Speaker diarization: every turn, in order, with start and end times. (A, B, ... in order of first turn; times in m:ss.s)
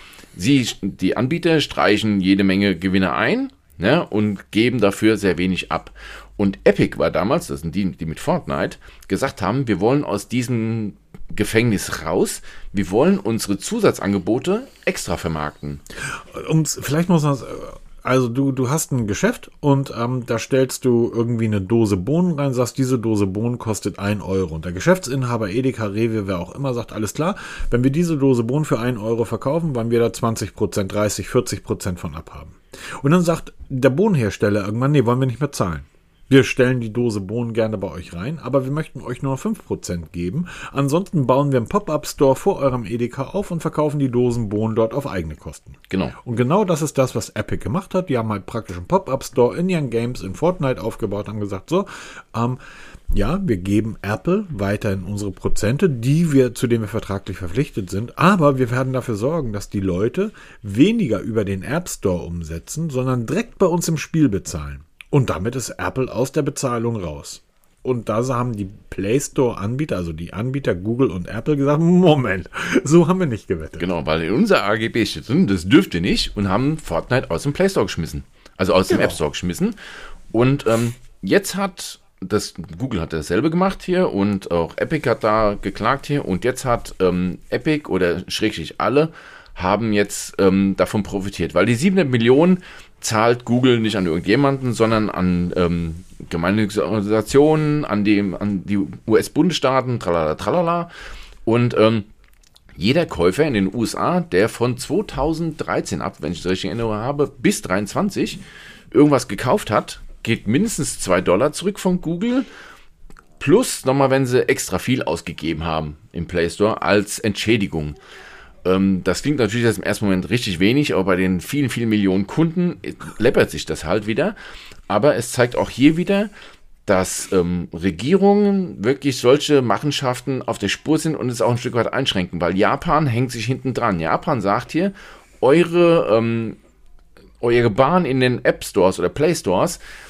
0:00.4-0:15.8 A
0:16.0-0:52.6 B
0:45.9-0:46.2 A
0:53.1-1:13.9 B
1:13.8-1:19.8 A
1:18.9-1:19.2 B
1:20.3-1:40.9 A
1:41.4-1:42.1 A
1:42.8-1:48.4 A
1:48.9-1:52.5 A
1:53.4-1:58.0 A
1:58.6-2:04.4 A
2:04.9-2:06.3 A
2:06.9-2:16.6 A
2:17.4-2:19.8 A